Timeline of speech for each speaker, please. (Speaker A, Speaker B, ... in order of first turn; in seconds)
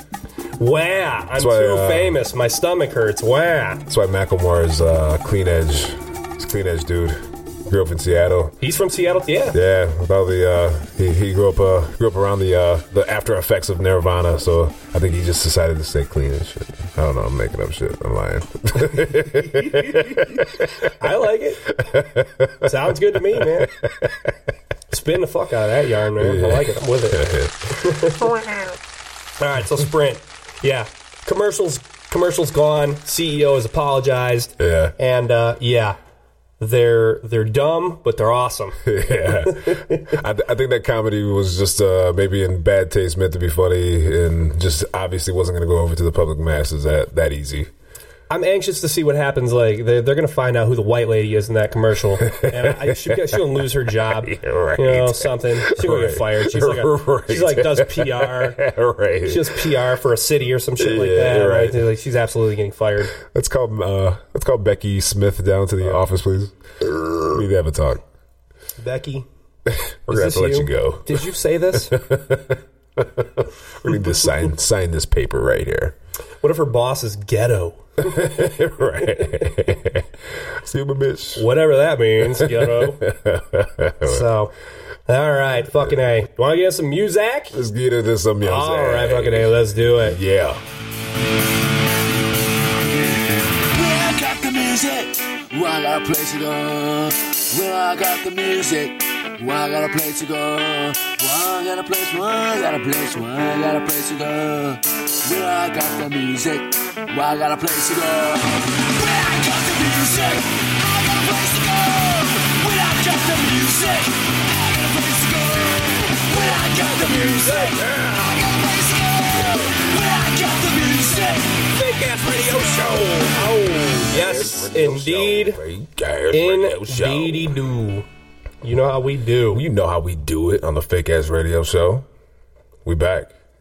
Speaker A: 0.6-3.8, 8.6-9.6, 19.1-21.7, 22.6-23.7, 24.9-28.2, 29.4-36.0, 36.6-38.8, 39.3-40.1, 48.3-58.6, 59.2-63.1, 68.8-69.3, 70.1-72.0, 76.4-78.5, 81.3-83.1, 84.0-84.5, 85.1-87.6, 88.4-90.2, 121.7-125.6, 126.3-128.1, 128.6-129.6
Speaker B: 1.4-2.2, 3.9-8.5, 9.5-20.9, 21.7-24.3, 26.2-28.4, 34.6-34.9, 38.8-47.7, 52.3-53.4, 54.2-59.7, 60.8-61.8, 63.1-68.0, 70.1-75.9, 78.0-81.5, 82.3-84.3, 87.5-90.6, 123.6-127.5, 129.5-132.1, 132.8-133.3
Speaker C: 93.7-121.6